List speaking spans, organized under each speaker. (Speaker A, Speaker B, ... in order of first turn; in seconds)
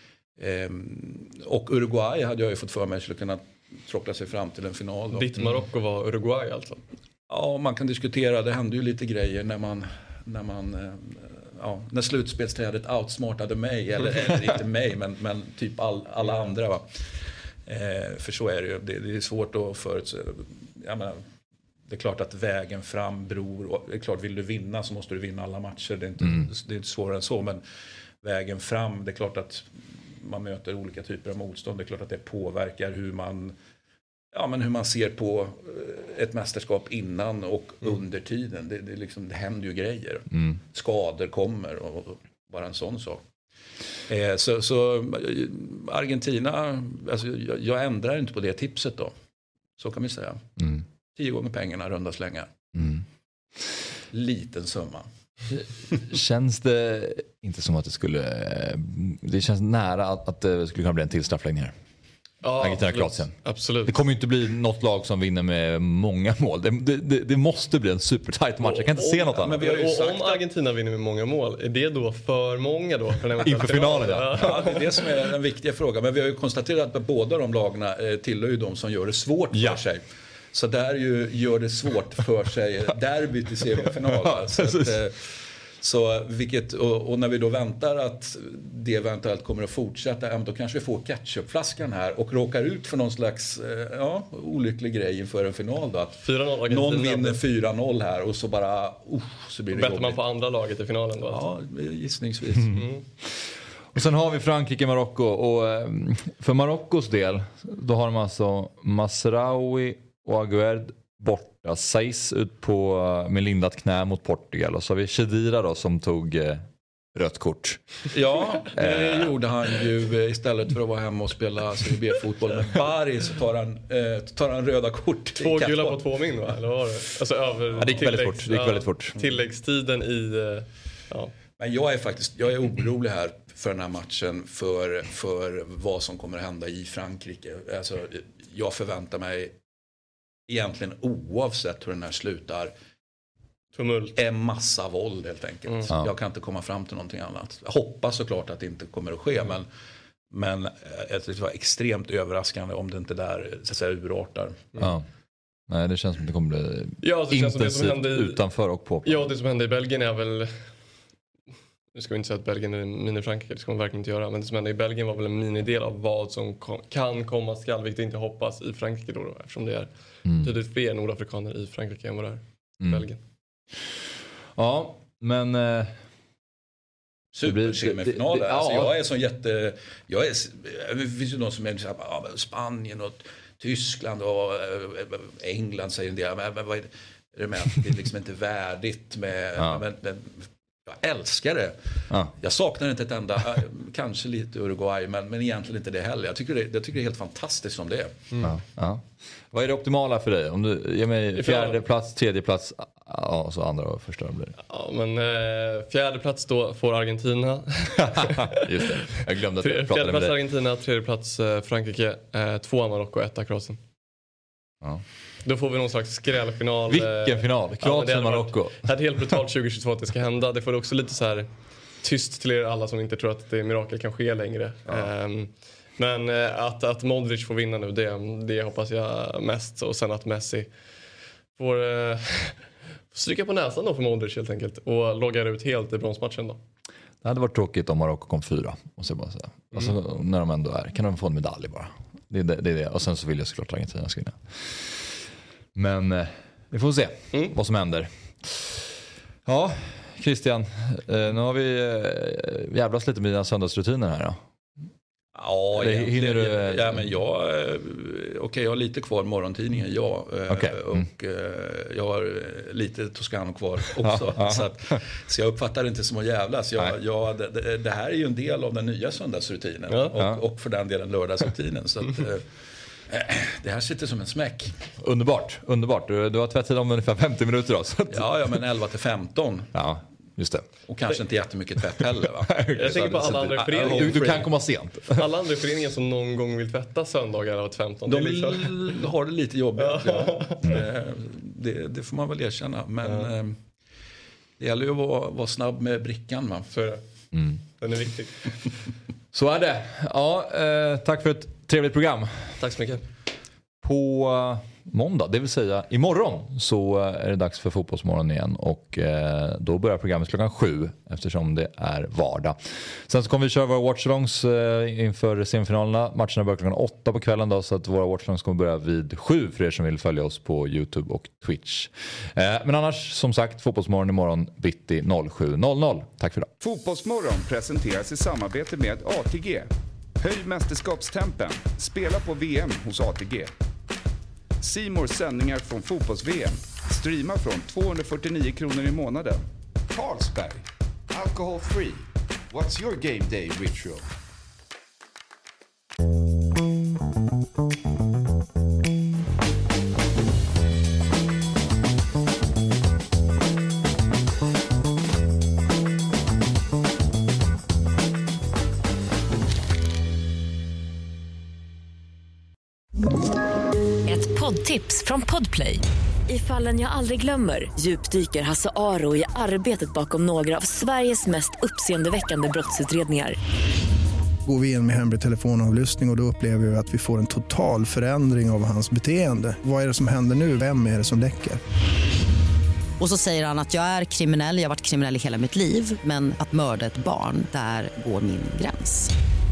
Speaker A: 0.4-5.5, 7.3-21.2, 21.9-27.6, 28.2-33.5, 34.3-43.2, 44.1-49.1, 49.8-50.5, 51.1-52.5, 54.1-56.0, 69.3-70.4, 74.4-100.2, 101.3-102.9, 118.1-126.0, 131.6-139.5, 140.5-142.7, 144.2-149.7, 150.3-154.7, 177.3-198.4, 255.3-274.7, 278.1-279.7, 280.9-284.5, 288.1-293.6, 294.6-296.7
Speaker B: 5.1-6.8, 62.4-64.0, 68.6-75.1, 96.2-97.4, 99.7-101.4, 102.7-103.0, 125.4-131.3, 143.8-144.2, 157.0-158.4, 159.0-160.7, 161.9-173.2, 201.4-201.8, 204.7-213.8, 215.4-221.5, 222.0-230.7, 231.6-236.6, 269.9-270.1, 282.8-284.5, 285.0-289.0, 289.8-290.7, 293.0-293.3, 296.7-297.0, 297.8-298.5, 302.6-303.0
Speaker C: 26.2-26.5, 50.6-50.8, 52.7-53.0, 56.0-61.7, 62.6-63.3, 63.9-69.6, 73.4-74.5, 79.5-79.8, 83.8-85.0, 103.9-118.0, 118.7-119.3, 127.8-129.2, 154.8-155.1, 155.7-159.3, 170.3-170.5, 174.6-176.0, 177.4-179.0, 189.6-189.8, 198.4-204.6, 208.2-210.4, 216.9-218.8, 237.2-245.2, 245.8-248.9, 249.4-254.4, 255.7-257.1, 260.5-261.1, 264.0-264.7, 275.0-278.6, 279.7-280.7, 282.0-285.3, 297.3-297.6, 299.3-302.6, 303.8-326.5
Speaker D: 326.6-333.5, 334.6-339.4
Speaker E: 339.9-344.1
Speaker F: 364.1-373.4
Speaker G: 374.4-381.6
Speaker H: 383.0-389.1